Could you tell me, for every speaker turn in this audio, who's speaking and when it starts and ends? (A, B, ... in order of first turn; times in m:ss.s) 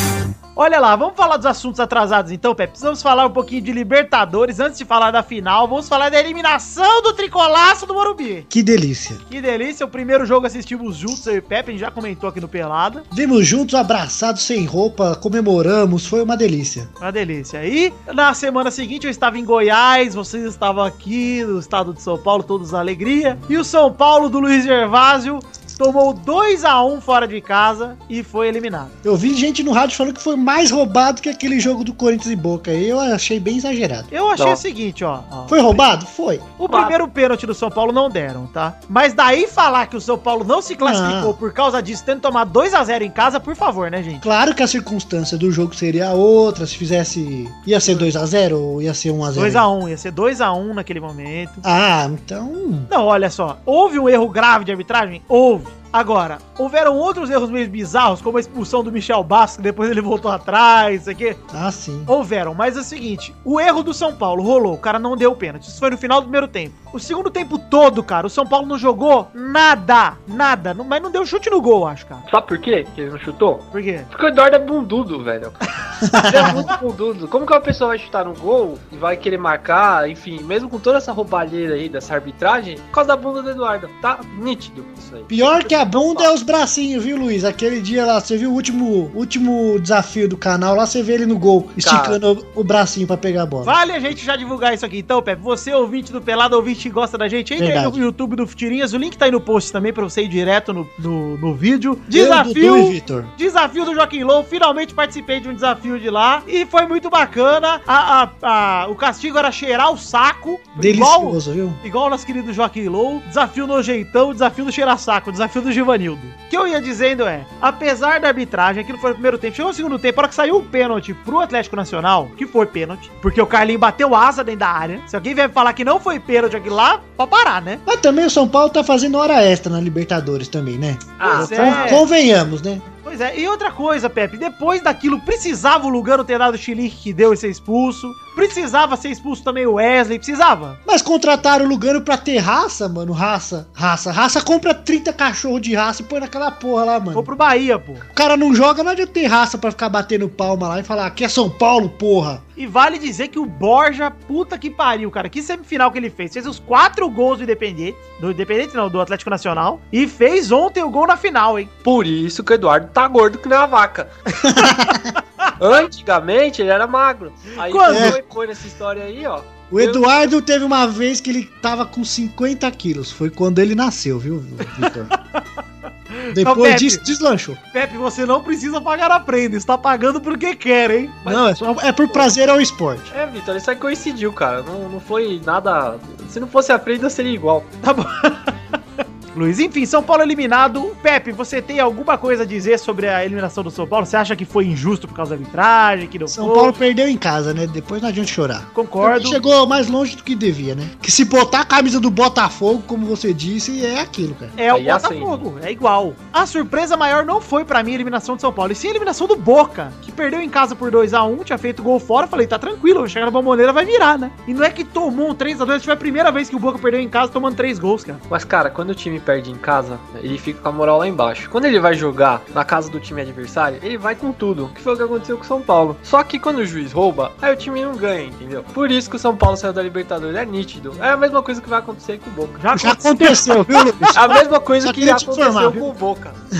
0:00.6-0:08.5 A
0:08.5-0:09.2 B
0:09.3-0:13.0 A
0:13.1-0:16.9 B
0:17.0-0:29.0 A
0:29.0-0:34.1 B
0:34.1-0:35.8 A
0:35.5-0:36.5 B
0:36.6-0:44.2 A
0:36.7-0:37.0 C
0:40.8-0:41.4 B
0:44.2-0:49.7 B
0:49.4-0:51.6 A
0:51.6-0:52.9 B
0:52.9-1:01.4 A
1:01.5-1:02.1 B
1:02.1-1:12.2 A
1:12.3-1:15.6 C
1:13.7-1:14.1 A
1:16.0-1:16.6 B
1:16.2-1:26.3 C
1:25.3-1:33.8 B
1:31.8-1:32.2 C
1:33.6-2:07.8 A
1:37.6-1:38.0 B
1:42.1-1:43.3 B
1:50.8-1:51.8 B
2:07.9-2:12.8 B
2:11.2-2:12.0 C
2:11.2-2:12.0 A
2:13.0-2:20.8 A
2:20.9-2:27.3 B
2:27.1-2:28.1 A
2:28.1-2:32.4 B
2:32.6-2:41.7 A
2:41.8-2:44.1 C
2:44.4-2:45.2 B
2:45.6-2:50.1 C
2:47.6-2:48.2 A
2:47.9-2:48.2 B
2:49.7-2:55.1 B
2:56.1-2:57.0 A
2:56.3-2:57.6 B
2:57.7-3:01.2 A
3:01.2-3:01.5 C
3:01.2-3:03.1 B
3:03.1-3:07.7 C
3:07.8-3:08.5 A
3:09.3-3:16.8 A
3:16.3-3:24.6 B
3:18.8-3:19.4 A
3:24.6-3:38.2 A
3:24.7-3:25.4 C
3:38.3-3:52.6 C
3:52.6-3:54.4 A
3:52.8-3:54.2 B
3:54.2-3:56.4 C
3:54.8-3:55.9 B